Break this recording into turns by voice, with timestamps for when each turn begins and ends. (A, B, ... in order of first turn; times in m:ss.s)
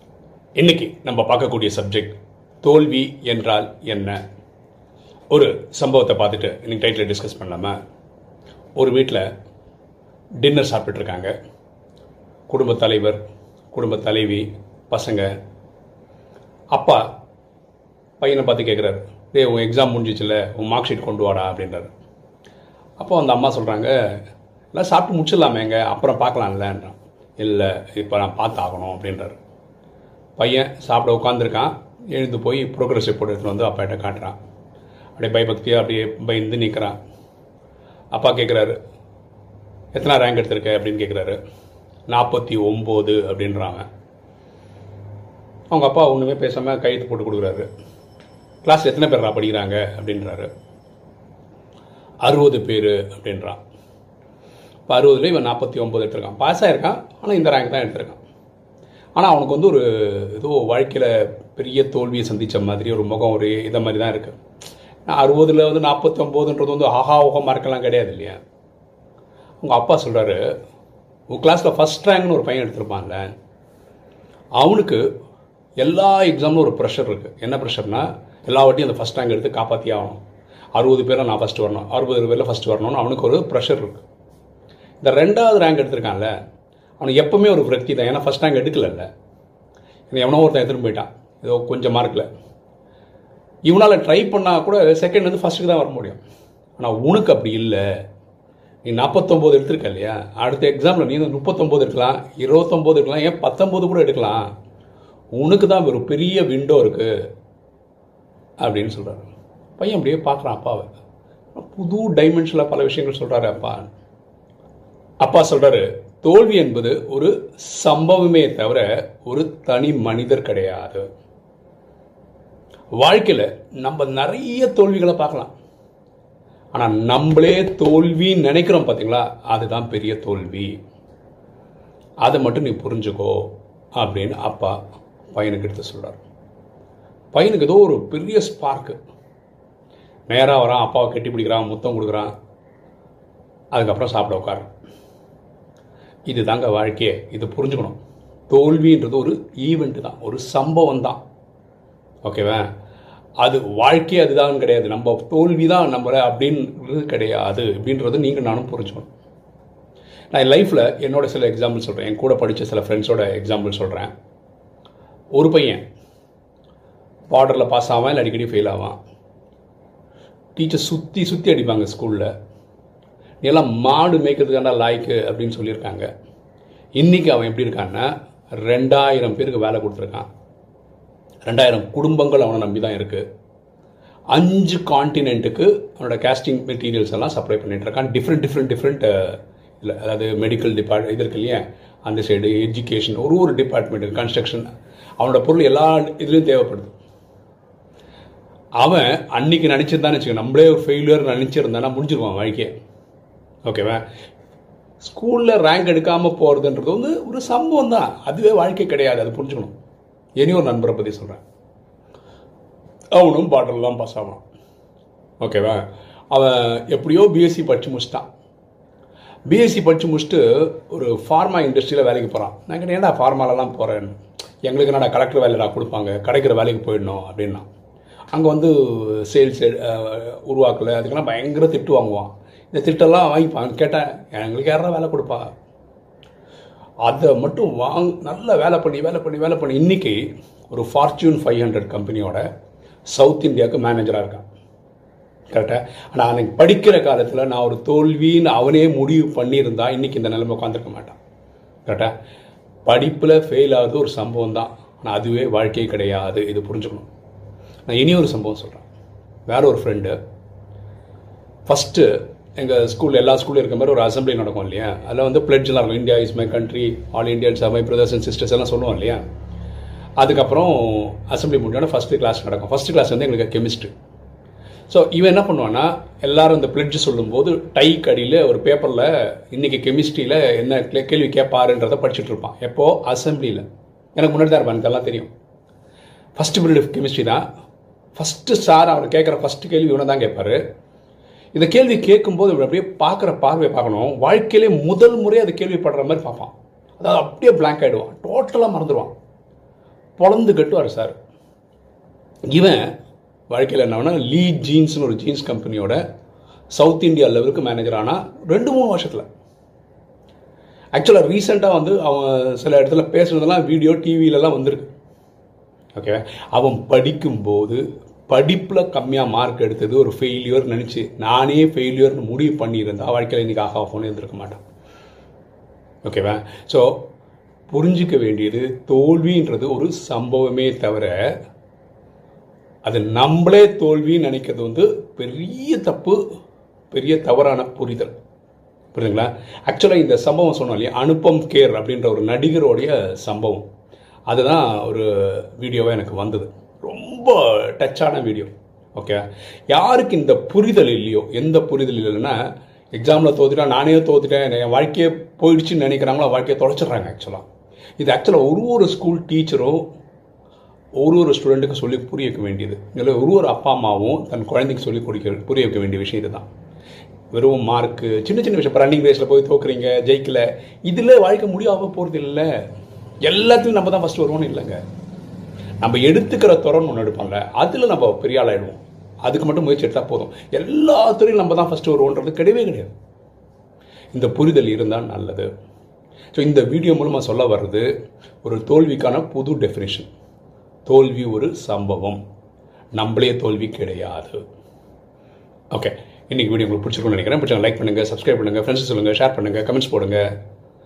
0:00.6-0:04.2 A
0:05.3-0:07.8 A
0:08.8-0:09.2 A
0:10.4-0:11.3 A
0:12.5-0:13.2 A
0:13.7-0:15.3 A
0:16.7-0:17.0 A
0:18.2-0:21.9 A
0:23.0-0:23.9 A
0:24.7-0:29.4 A
0:30.4-0:34.4 A
0:35.2-0:37.0 A
0:38.1-0:38.8 A
0:39.9-0:41.4 A
0:42.1-0:43.9 A
0:45.7-0:47.7 A
0:48.6-0:50.5 A
0:52.2-0:53.6 A
0:54.9-0:58.2 A
0:59.2-1:04.4 A
1:05.0-1:08.4 A
1:09.6-1:10.4 A
1:11.3-1:13.3 A
1:14.6-1:15.0 A
1:15.8-1:20.2 A
1:20.7-1:24.0 A
1:25.0-1:26.3 A
1:27.0-1:29.1 A
1:30.1-1:32.3 A
1:33.7-1:36.2 A
1:36.8-1:37.8 A
1:38.8-1:44.4 A
1:45.4-1:47.1 A
1:48.6-1:50.9 A
1:51.5-1:53.9 A
1:55.2-2:01.0 A
2:03.0-2:05.5 A
2:06.7-2:10.7 A
2:12.2-2:14.8 A
2:15.3-2:16.2 A
2:17.3-2:19.0 A
2:20.3-2:22.3 A
2:23.7-2:24.7 A
2:26.2-2:31.2 A
2:32.2-2:32.7 A
2:33.4-2:39.1 A
2:40.3-2:44.1 A
2:45.3-2:45.8 A
2:47.3-2:49.0 A
2:50.5-2:52.3 A
2:53.4-2:56.1 A
2:57.0-3:00.3 A
3:01.4-3:03.2 A
3:04.3-3:14.6 A
3:15.2-3:16.9 A
3:18.8-3:22.7 A
3:23.6-3:24.0 A
3:25.0-3:29.7 A
3:30.4-3:31.4 A
3:33.1-3:34.4 A
3:35.4-3:38.3 A
3:39.5-3:47.6 A
3:48.3-3:55.5 A
3:57.0-4:02.4 A
4:03.1-4:04.4 A
4:05.5-4:11.2 A
4:11.8-4:12.1 A
4:12.8-4:17.1 A
4:17.9-4:18.9 A
4:19.5-4:20.2 A
4:21.6-4:29.2 A
4:30.2-4:33.9 A
4:34.9-4:43.6 A
4:44.2-4:45.3 A
4:46.4-4:47.4 A
4:48.1-4:50.6 A
4:51.5-4:59.1 A
5:00.2-5:01.2 A
5:02.5-5:02.8 A
5:03.5-5:06.0 A
5:06.7-5:09.2 A
5:10.9-5:14.9 A
5:15.9-5:24.6 A
5:26.0-5:27.0 A
5:27.7-5:31.3 A
5:32.8-5:36.2 A
5:36.9-5:38.1 A
5:38.9-5:43.6 A
5:44.3-5:52.4 A
5:52.9-5:57.4 A
5:58.0-5:59.8 A
6:01.0-6:06.5 A
6:07.3-6:12.5 A
6:13.2-6:14.8 A
6:15.8-6:22.9 A
6:24.1-6:25.5 A
6:26.3-6:27.9 A
6:28.4-6:30.1 A
6:30.8-6:32.2 A
6:32.9-6:34.4 A
6:35.7-6:40.2 A